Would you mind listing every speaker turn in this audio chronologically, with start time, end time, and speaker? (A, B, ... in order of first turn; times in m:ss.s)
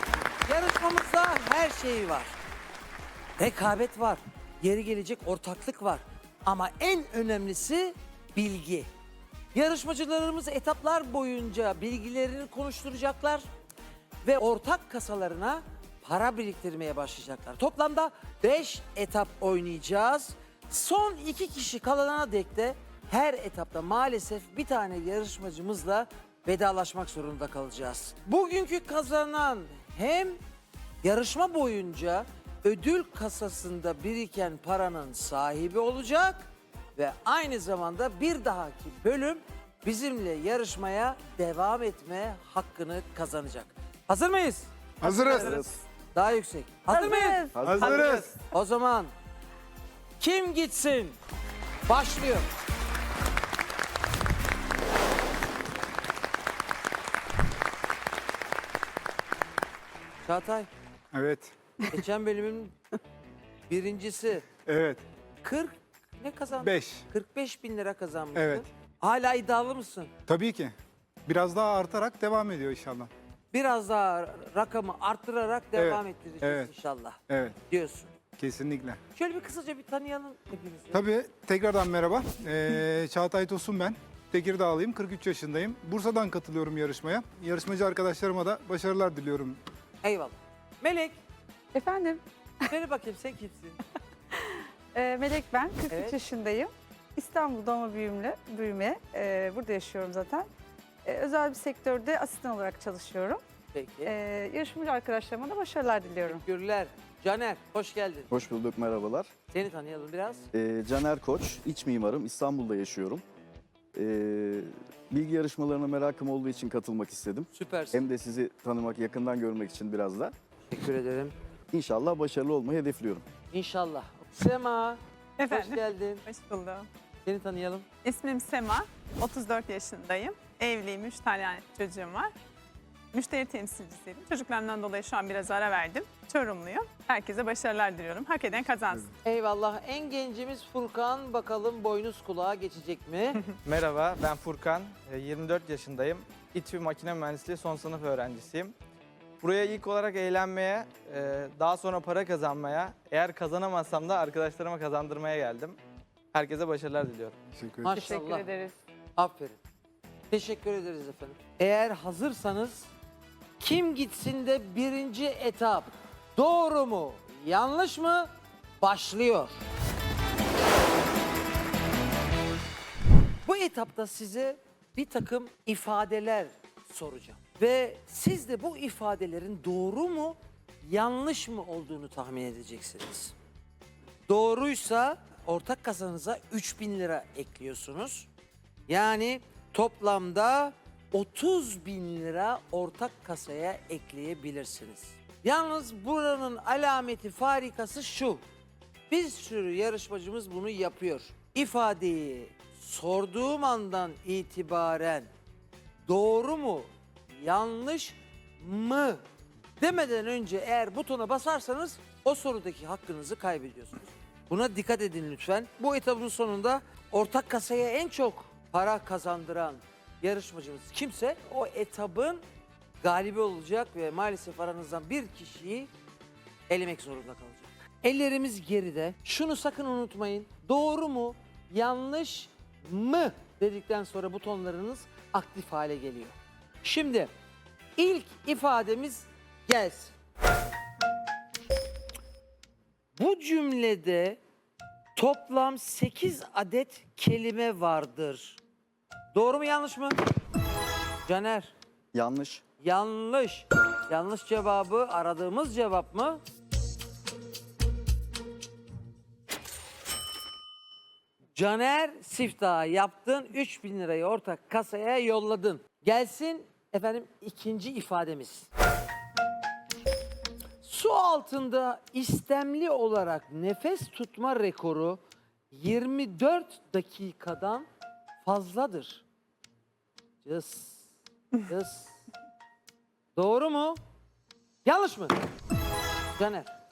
0:00.4-0:02.4 A
0:03.4-0:08.9 A
0:09.5-0:13.5 A
0:14.2-0:30.4 A
0:31.0-0:45.6 A
0:45.0-0:45.6 B
0:45.4-0:45.7 C
0:46.1-0:49.1 A
0:46.9-0:47.6 D
0:47.6-0:47.9 C
0:47.6-0:48.3 B
0:47.8-0:48.3 E
0:50.2-0:51.2 A
0:51.9-0:52.5 A
1:00.3-1:00.7 A
1:01.1-1:01.5 B
1:01.9-1:02.8 A
1:03.7-1:04.5 A
1:04.7-1:05.0 B
1:05.4-1:10.1 A
1:06.6-1:07.1 B
1:08.4-1:08.7 B
1:10.3-1:10.7 B
1:11.3-1:13.1 B
1:13.5-1:18.1 A
1:15.8-1:16.7 B
1:17.3-1:17.6 B
1:18.4-1:19.0 B
1:19.2-1:21.0 A
1:20.9-1:29.6 B
1:30.0-1:31.2 A
1:31.7-1:32.7 D
1:32.7-1:33.8 A
1:34.3-1:40.5 D
1:35.9-1:36.2 A
1:41.0-1:43.4 D
1:43.7-1:44.1 A
1:44.1-1:46.4 D
1:46.2-1:48.3 A
1:48.3-1:49.3 C
1:49.5-1:50.4 A
1:50.6-1:53.2 C
1:54.0-2:00.3 C
1:57.5-1:58.1 A
2:00.7-2:01.4 A
2:01.8-2:03.2 C
2:03.5-2:06.2 A
2:05.4-2:06.9 F
2:07.2-2:07.9 A
2:08.0-2:12.3 F
2:13.1-2:19.1 F
2:19.2-2:23.4 A
2:23.6-2:28.8 E
2:29.4-2:35.8 E
2:36.3-2:37.4 E
2:37.5-2:38.1 B
2:37.8-2:38.5 A
2:37.9-2:38.8 D
2:39.2-2:39.6 A
2:40.3-2:42.9 A
2:43.6-2:48.3 A
2:48.8-2:49.6 A
2:53.4-3:03.4 A
3:04.3-3:08.3 A
3:08.9-3:18.4 A
3:19.1-3:25.3 A
3:26.1-3:29.2 A
3:29.8-3:42.4 A
3:43.0-3:45.9 A
3:46.7-3:57.3 A
3:58.0-4:00.1 A
4:03.2-4:04.4 A
4:05.2-4:08.6 A
4:09.3-4:10.2 A
4:11.2-4:11.7 A
4:12.2-4:12.6 C
4:12.8-4:16.4 A
4:21.6-4:28.7 A
4:30.8-4:35.2 A
4:35.7-4:37.9 A
4:38.4-4:39.2 A
4:40.4-4:42.2 A
4:43.4-4:44.0 A
4:44.8-4:45.4 A
4:46.4-4:46.7 A